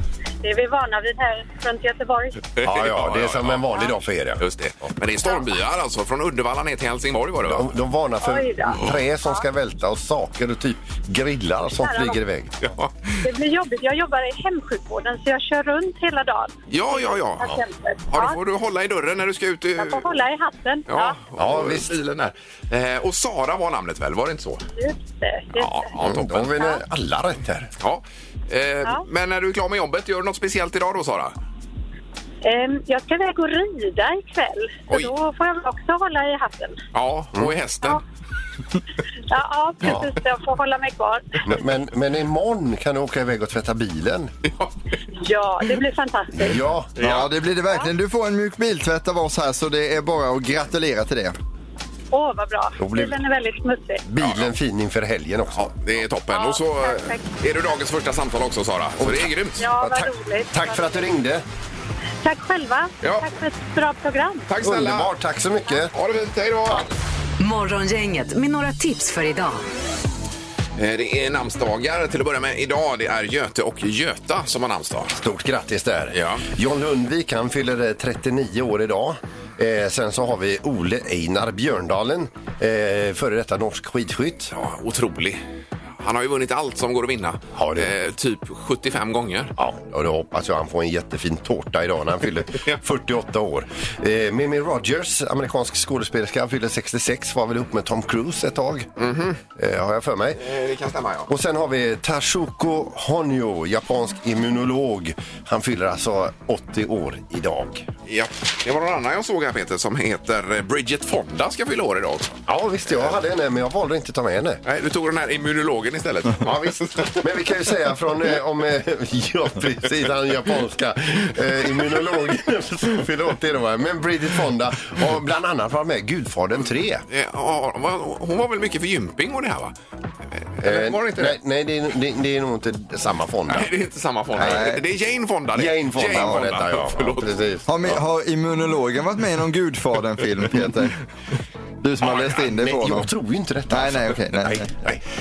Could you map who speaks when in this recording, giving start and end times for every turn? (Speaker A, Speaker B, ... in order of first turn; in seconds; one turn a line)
Speaker A: 0.4-2.5
Speaker B: 2.5-7.7
Speaker C: 2.6-4.5
Speaker C: 7.4-12.8
Speaker A: 8.2-9.4
Speaker A: 11.8-12.2
Speaker B: 12.6-13.3
Speaker A: 13.2-18.4
Speaker B: 16.7-17.6
Speaker B: 18.1-20.1
Speaker A: 19.8-21.2
Speaker B: 20.9-24.6
Speaker C: 21.4-22.0
Speaker A: 24.8-25.9
Speaker B: 25.6-26.5
Speaker C: 26.0-27.7
Speaker A: 26.6-26.8
Speaker B: 27.8-31.4
Speaker A: 32.4-36.8
Speaker B: 36.9-38.0
Speaker A: 39.3-41.4
Speaker C: 39.8-40.1
Speaker C: 41.5-44.3
Speaker B: 44.5-45.0
Speaker A: 45.2-46.6
Speaker C: 46.4-46.9
Speaker D: 47.0-51.4
Speaker B: 47.0-47.3
Speaker A: 52.1-54.0
Speaker C: 52.8-53.2
Speaker C: 54.1-56.0
Speaker B: 54.2-54.5
Speaker B: 55.5-59.7
Speaker A: 56.3-57.3
Speaker C: 59.0-61.4
Speaker A: 59.6-61.1
Speaker A: 62.2-64.5
Speaker B: 63.0-63.3
Speaker B: 64.5-65.1
Speaker C: 64.6-65.9
Speaker B: 65.9-66.9
Speaker E: 67.4-69.7
Speaker B: 70.8-75.2
Speaker C: 75.2-84.5
Speaker B: 76.1-76.5
Speaker B: 84.5-85.4
Speaker B: 86.0-89.5
Speaker C: 87.5-87.9
Speaker C: 89.6-98.9
Speaker B: 99.0-99.4
Speaker C: 99.6-100.5
Speaker B: 100.4-101.3
Speaker C: 101.3-107.9
Speaker B: 108.1-112.3
Speaker C: 112.5-114.6
Speaker B: 114.7-117.2
Speaker C: 116.4-127.0
Speaker B: 127.1-129.8
Speaker B: 130.5-131.4
Speaker C: 130.6-133.7
Speaker B: 133.5-137.4
Speaker C: 134.4-134.8
Speaker D: 134.4-134.8
Speaker C: 135.5-138.0
Speaker D: 136.1-136.5
Speaker D: 137.7-141.0
Speaker D: 141.8-143.1
Speaker C: 142.1-145.0
Speaker D: 143.7-144.7